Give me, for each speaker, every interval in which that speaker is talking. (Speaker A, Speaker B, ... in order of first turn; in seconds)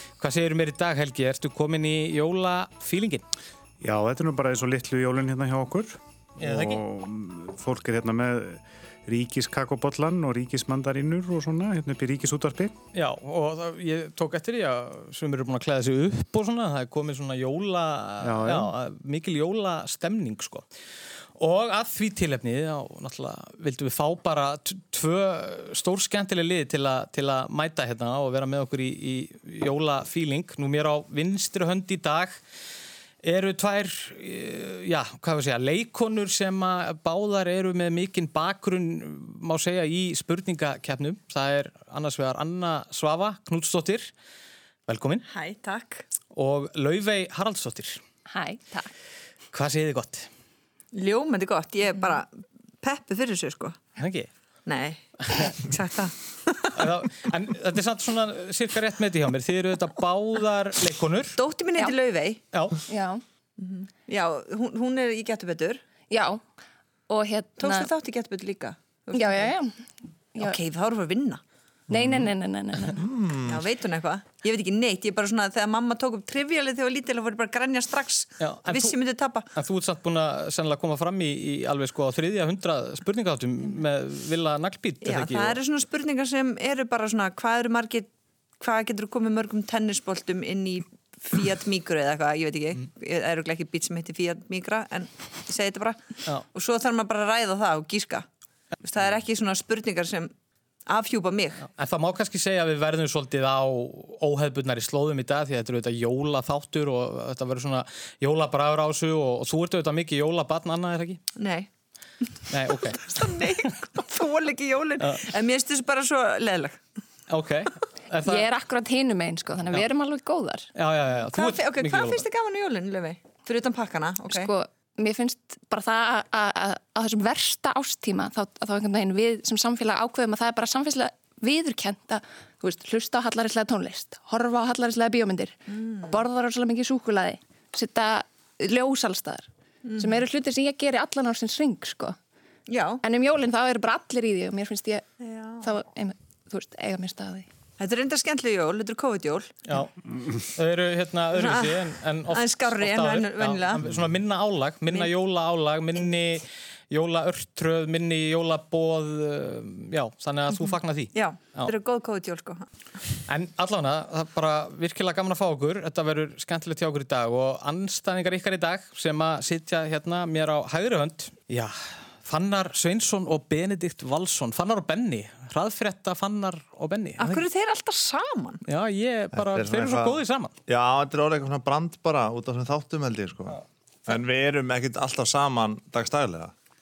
Speaker A: 0.2-3.2, 6.4-6.8, 12.9-20.7, 21.4-32.4, 33.2-44.1, 44.9-45.2, 46.3-48.0, 49.5-50.3, 54.0-54.3, 56.8-61.4, 62.5-62.8, 78.4-79.0, 79.5-85.6, 101.7-111.2, 112.5-113.2, 115.0-115.3, 117.3-118.5, 120.8-122.2, 149.7-161.7, 163.3-177.4, 178.7-180.5
Speaker B: 3.8-12.7, 18.2-18.7
Speaker C: 45.2-46.1, 50.9-53.8, 54.7-56.9, 61.4-62.4, 63.6-65.8, 67.6-69.5, 70.4-71.4, 73.5-79.5, 85.0-98.3, 98.8-100.3, 100.9-101.7, 111.4-111.7, 113.0-116.8, 121.3-124.5, 135.7-136.2, 139.8-140.2, 142.7-143.0, 145.2-145.7, 147.8-149.5, 151.3-153.9, 161.1-162.7, 177.2-178.6
Speaker D: 48.3-48.9, 62.9-63.2, 66.1-66.4, 67.1-67.9, 69.1-69.7, 71.9-73.0, 118.2-120.7, 124.3-142.2, 143.0-145.0, 145.6-147.5
Speaker E: 71.9-72.3, 73.0-73.7, 179.3-186.5